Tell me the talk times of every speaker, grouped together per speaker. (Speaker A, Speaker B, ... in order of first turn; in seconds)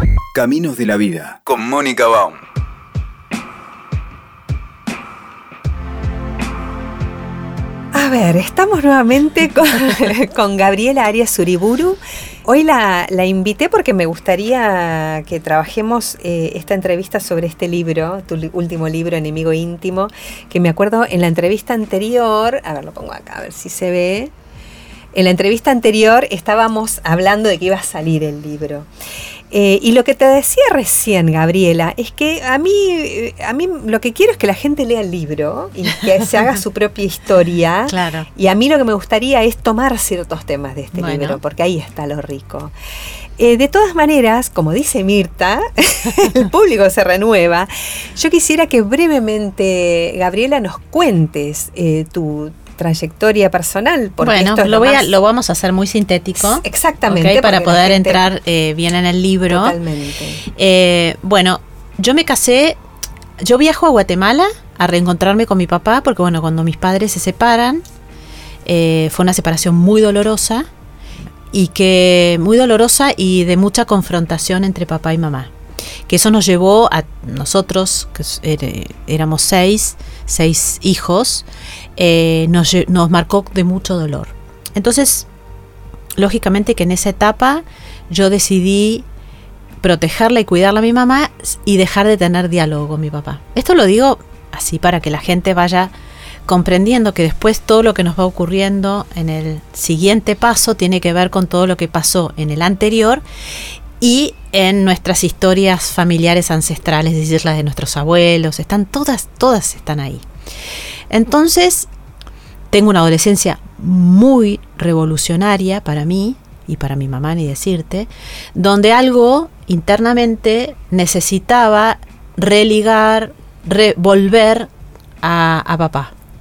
Speaker A: 0.3-2.4
Speaker B: 7.9-24.3, 25.1-28.9, 29.5-42.7, 43.4-55.1, 56.4-58.2, 59.5-60.4
Speaker C: 37.9-38.3, 40.9-41.4, 54.2-59.8, 60.5-62.8, 63.4-67.8, 68.6-70.7, 71.5-75.5, 76.1-81.4, 82.0-85.3, 86.2-89.0, 89.8-95.9, 96.5-103.2, 104.0-110.2, 111.1-111.9, 112.7-124.7, 125.2-126.1